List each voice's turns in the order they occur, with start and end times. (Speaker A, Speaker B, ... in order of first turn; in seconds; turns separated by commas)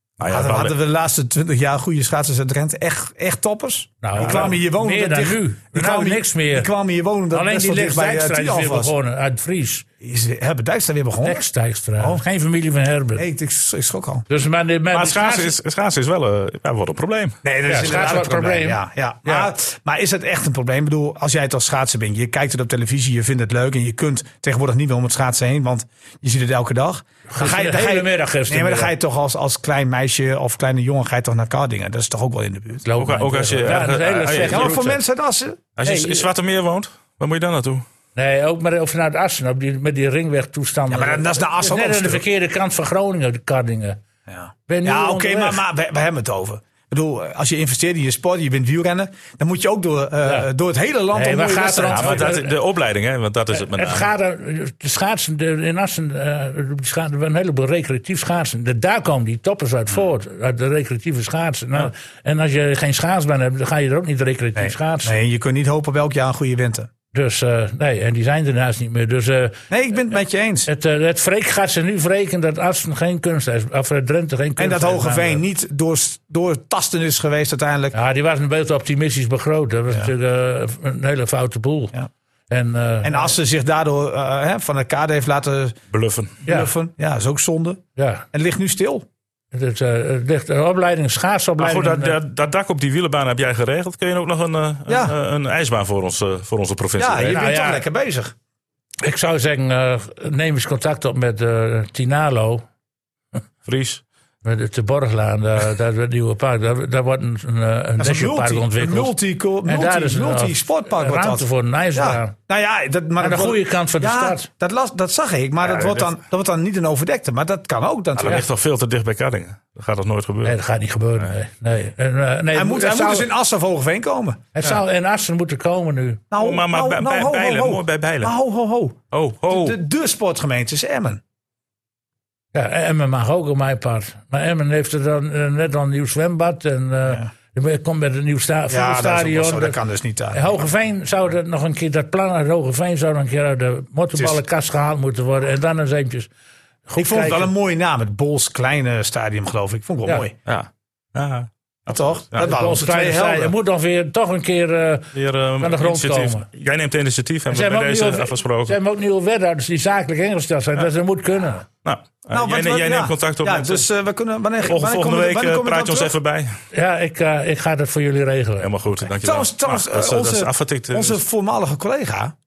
Speaker A: 0.2-0.8, Speaker B: 0.3-8.9, Speaker C: 4.0-6.7, Speaker C: 7.3-9.8, Speaker B: 10.0-11.5, Speaker C: 11.2-13.2, Speaker B: 12.0-12.2, Speaker B: 13.2-14.2, Speaker C: 14.3-15.5, Speaker A: 14.9-17.4, Speaker B: 17.4-32.8, Speaker C: 17.6-19.5, Speaker C: 27.3-28.9, Speaker C: 32.8-35.0, Speaker A: 33.0-34.8, Speaker B: 34.4-35.6, Speaker A: 35.8-37.8, Speaker C: 35.8-36.2, Speaker C: 38.1-44.0, Speaker B: 40.9-42.2, Speaker B: 44.3-52.3, Speaker C: 44.7-45.6, Speaker C: 51.1-52.5, Speaker A: 51.8-54.1, Speaker C: 53.5-65.1, Speaker B: 64.5-66.9, Speaker C: 67.1-70.1, Speaker B: 69.7-70.7, Speaker C: 70.7-75.4, Speaker B: 74.6-78.0, Speaker C: 77.9-81.9, Speaker C: 82.5-83.3, Speaker B: 83.0-85.8, Speaker A: 85.9-86.3, Speaker B: 86.4-87.8, Speaker C: 86.4-86.7, Speaker C: 88.0-88.2, Speaker B: 88.3-89.1, Speaker C: 89.5-92.2, Speaker A: 91.6-97.4, Speaker B: 94.9-95.2, Speaker B: 97.0-98.3, Speaker C: 97.3-97.8, Speaker C: 99.0-102.6, Speaker A: 103.7-104.0, Speaker C: 104.4-112.3, Speaker B: 108.0-118.4, Speaker C: 113.2-114.5, Speaker A: 115.6-116.1, Speaker A: 118.2-120.6, Speaker C: 120.4-123.3, Speaker B: 122.5-124.8, Speaker C: 124.5-126.2, Speaker B: 126.3-131.2, Speaker A: 126.4-128.3, Speaker A: 129.1-129.8, Speaker C: 132.5-139.8, Speaker B: 137.1-137.3, Speaker B: 138.7-140.7, Speaker C: 140.3-146.3, Speaker B: 144.2-144.4, Speaker C: 146.9-147.5, Speaker B: 147.0-150.3, Speaker A: 150.4-152.5, Speaker B: 151.9-153.5, Speaker C: 152.4-156.4, Speaker A: 155.1-158.8, Speaker C: 157.5-161.7, Speaker A: 161.8-163.8, Speaker B: 162.3-166.1, Speaker A: 164.6-166.6, Speaker C: 166.7-168.7, Speaker A: 168.6-171.2, Speaker B: 169.2-172.3